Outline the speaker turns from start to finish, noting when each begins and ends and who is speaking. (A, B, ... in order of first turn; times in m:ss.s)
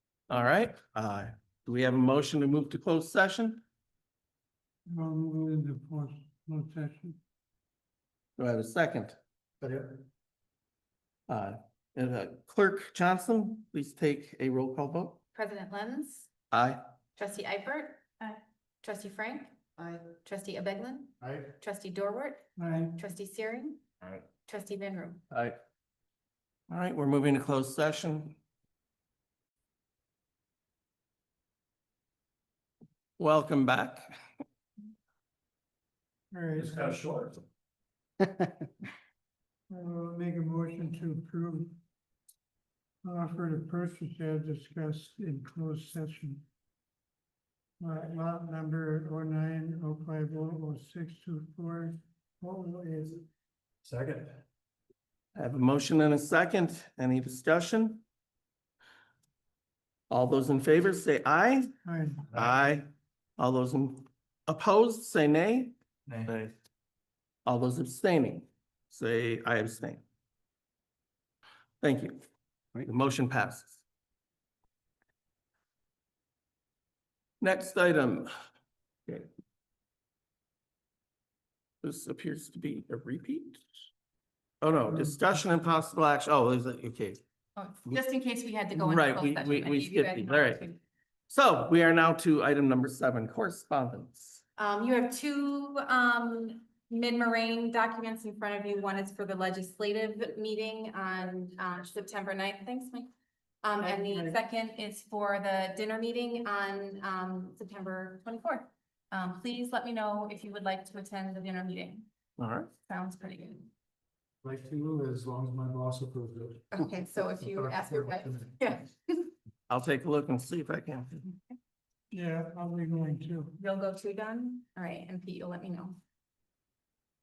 0:00.3-0:03.6 A
0:04.9-0:07.2 B
0:08.4-0:09.2 A
0:09.6-0:10.0 C
0:11.3-0:15.2 A
0:15.3-0:16.3 D
0:16.5-0:16.8 A
0:17.2-0:19.6 D
0:20.1-0:23.8 D
0:21.2-0:21.5 C
0:22.6-0:23.0 B
0:24.4-0:25.2 D
0:26.7-0:28.4 A
0:33.2-0:34.2 A
0:36.3-0:37.0 B
0:36.6-0:37.4 C
0:39.7-0:41.8 B
0:43.0-0:46.4 B
0:47.8-0:53.2 B
0:53.8-0:54.4 C
0:55.4-0:58.0 A
1:00.1-1:01.7 A
1:01.8-1:02.3 B
1:02.3-1:05.8 A
1:06.1-1:06.3 C
1:07.4-1:10.0 A
1:11.8-1:12.2 A
1:12.8-1:13.8 A
1:17.4-1:18.3 A
1:21.8-1:23.6 A
1:24.6-1:27.2 A
1:24.9-1:25.3 B
1:27.6-1:30.8 D
1:28.7-1:30.6 A
1:31.3-1:34.4 A
1:34.6-1:43.1 D
1:43.6-1:52.1 D
1:43.8-1:44.4 B
1:52.4-1:52.7 A
1:52.8-1:53.7 D
1:54.4-1:56.6 C
1:56.7-1:59.3 D
1:57.4-1:58.5 C
1:59.7-2:01.2 A
2:02.1-2:03.5 B
2:03.6-2:06.0 D